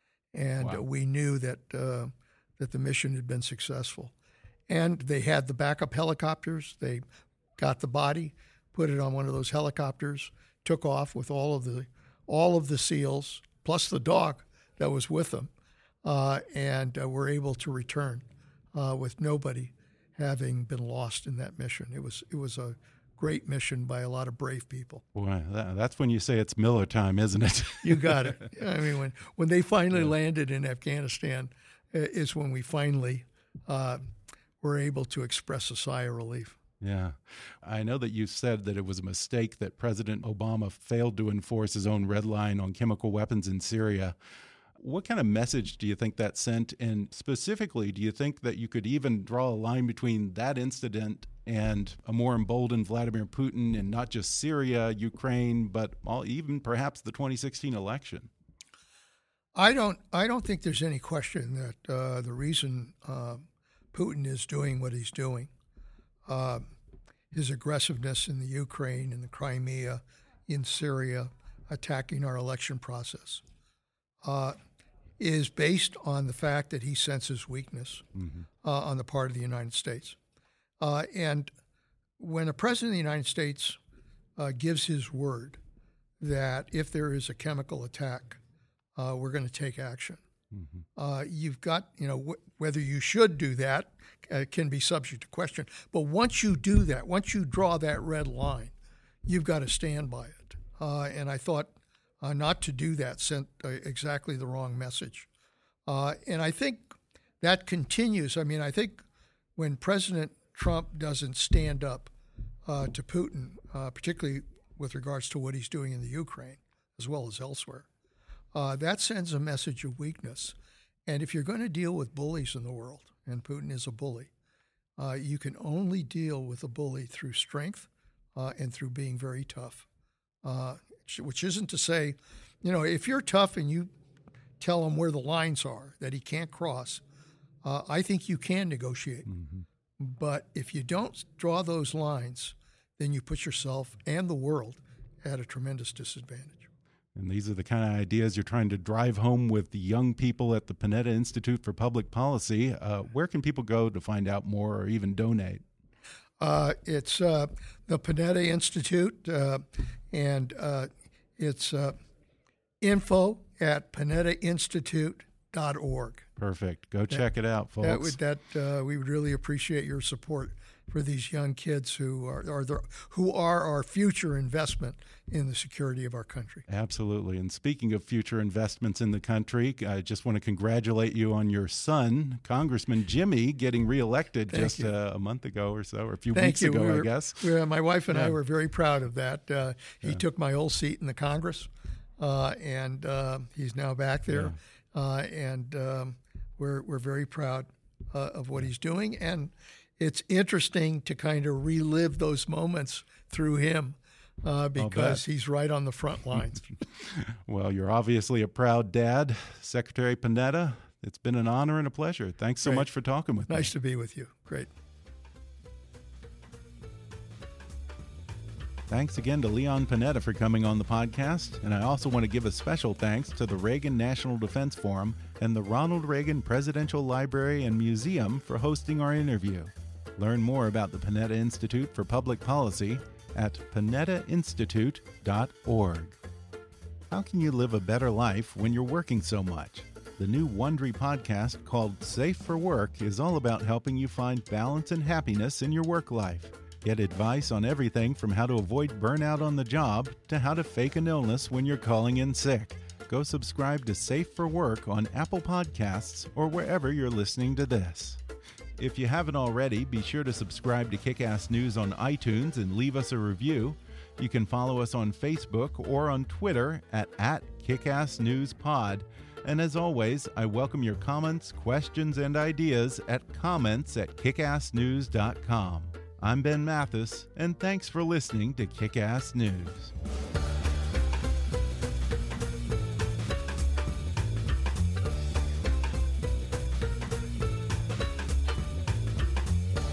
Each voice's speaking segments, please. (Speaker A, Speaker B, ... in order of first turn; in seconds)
Speaker A: 0.3-4.1, 4.7-7.0, 7.6-15.5, 16.0-25.0, 27.8-34.1, 34.6-36.5, 59.5-65.5, 66.3-66.6, 67.3-73.4, 74.2-74.5, 75.2-78.0, 78.6-80.2, 80.8-81.5, 82.2-83.8, 84.4-85.6, 86.2-88.4, 89.0-90.2, 91.0-98.7, 99.2-105.3, 105.9-109.0, 109.5-112.1, 112.7-117.9, 118.5-120.5, 121.0-124.3, 125.0-129.8, 130.4-133.9, 134.6-137.0, 137.6-139.3, 140.0-146.7, 156.4-161.9, 162.8-166.3, 167.8-176.7, 184.5-184.9, 186.3-206.8, 213.5-214.7
Speaker B: 25.1-28.5, 36.8-44.1, 44.8-58.3, 78.2-78.5, 90.5-90.8, 139.3-139.6, 147.1-155.6, 166.4-168.2, 176.7-187.5, 188.1-188.3, 194.3-194.6, 204.8-205.2, 206.9-213.7, 218.9-236.2, 237.1-258.2, 258.8-279.9